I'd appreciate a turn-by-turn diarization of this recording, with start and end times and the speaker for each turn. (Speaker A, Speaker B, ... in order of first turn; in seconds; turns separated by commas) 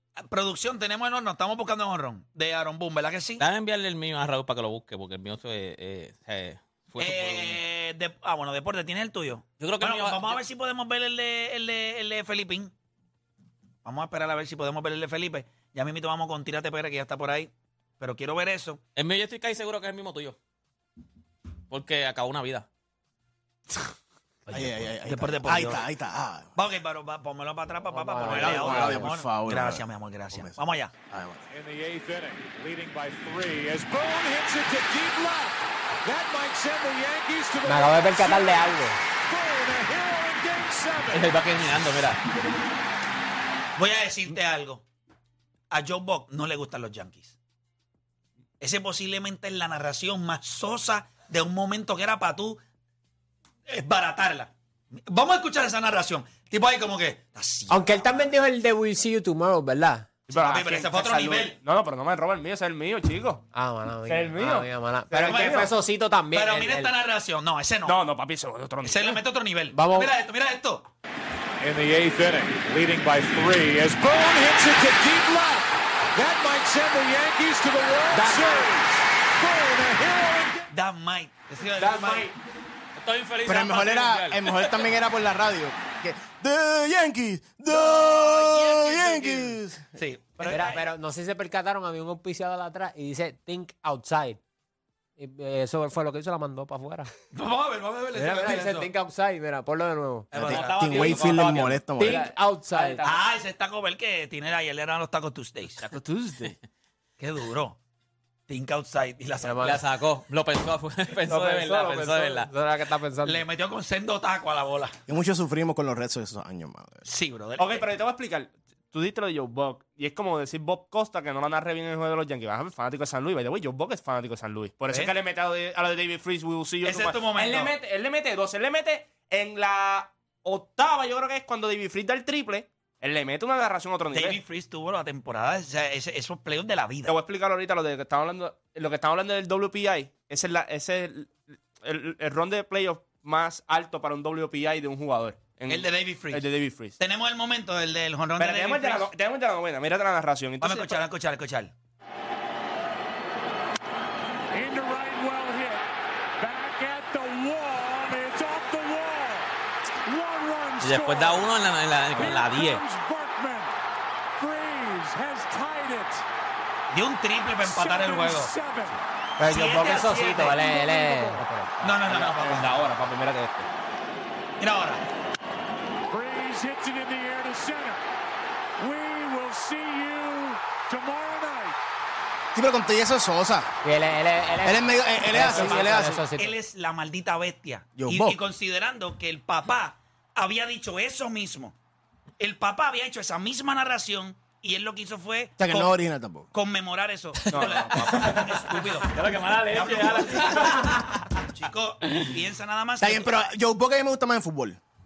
Speaker A: 0.2-3.4, Speaker B: 3.4-7.6, Speaker A: 7.0-12.7, Speaker B: 9.6-10.4, Speaker A: 13.8-18.8, Speaker B: 18.9-20.4, Speaker B: 21.7-22.7, Speaker C: 24.5-26.5, Speaker A: 24.5-25.9, Speaker A: 26.6-30.9, Speaker D: 27.9-29.1, Speaker C: 28.2-31.5, Speaker E: 31.5-41.4, Speaker D: 37.6-39.0, Speaker B: 41.1-42.2, Speaker A: 43.8-44.8, Speaker A: 45.7-47.4, Speaker A: 48.6-52.6, Speaker A: 53.7-58.3, Speaker D: 57.7-60.1, Speaker F: 60.3-63.4, Speaker A: 60.3-61.6, Speaker D: 63.5-66.9, Speaker F: 64.1-65.7, Speaker A: 65.2-65.7, Speaker A: 66.3-68.0, Speaker F: 67.8-69.2, Speaker A: 68.8-70.9, Speaker D: 69.7-70.1, Speaker E: 71.6-80.7, Speaker D: 78.1-78.7, Speaker A: 80.7-82.3, Speaker D: 81.8-82.3, Speaker B: 83.0-84.8, Speaker C: 83.5-89.9, Speaker A: 87.7-90.8, Speaker F: 90.4-90.6, Speaker D: 90.4-94.4, Speaker D: 95.2-97.1, Speaker A: 97.3-98.9, Speaker D: 98.1-100.3, Speaker A: 100.3-101.7, Speaker C: 100.3-102.2, Speaker B: 100.4-102.0, Speaker D: 102.0-103.0, Speaker F: 102.0-103.1, Speaker A: 103.0-105.8, Speaker F: 105.8-106.5, Speaker A: 107.2-107.8, Speaker A: 108.5-109.8, Speaker D: 109.4-109.8, Speaker B: 109.6-112.5, Speaker D: 111.3-113.4, Speaker A: 113.2-114.9, Speaker C: 115.1-117.0, Speaker A: 117.0-117.9, Speaker F: 117.6-134.4, Speaker A: 126.8-127.7, Speaker A: 134.1-137.1, Speaker F: 137.1-146.9, Speaker A: 145.7-146.5, Speaker A: 147.0-149.1, Speaker F: 148.4-151.0, Speaker A: 150.6-151.7, Speaker E: 154.5-155.8, Speaker E: 156.4-159.5, Speaker E: 160.1-161.5, Speaker B: 160.8-162.8, Speaker E: 162.1-163.7, Speaker E: 164.4-166.2, Speaker A: 166.9-168.5, Speaker E: 167.6-169.0, Speaker D: 169.4-172.1, Speaker A: 169.4-170.6, Speaker E: 170.6-171.4, Speaker A: 171.8-172.8, Speaker F: 172.1-173.7, Speaker A: 174.6-175.0, Speaker E: 176.1-178.0, Speaker E: 178.8-181.8, Speaker C: 182.5-183.7, Speaker D: 183.8-186.5, Speaker C: 184.6-186.2, Speaker A: 185.4-191.7, Speaker C: 188.0-188.4, Speaker A: 192.4-195.9, Speaker C: 195.6-196.5, Speaker A: 196.5-201.0, Speaker F: 197.5-198.6, Speaker B: 198.0-201.2, Speaker A: 201.5-203.3, Speaker B: 202.0-202.3, Speaker C: 203.0-204.8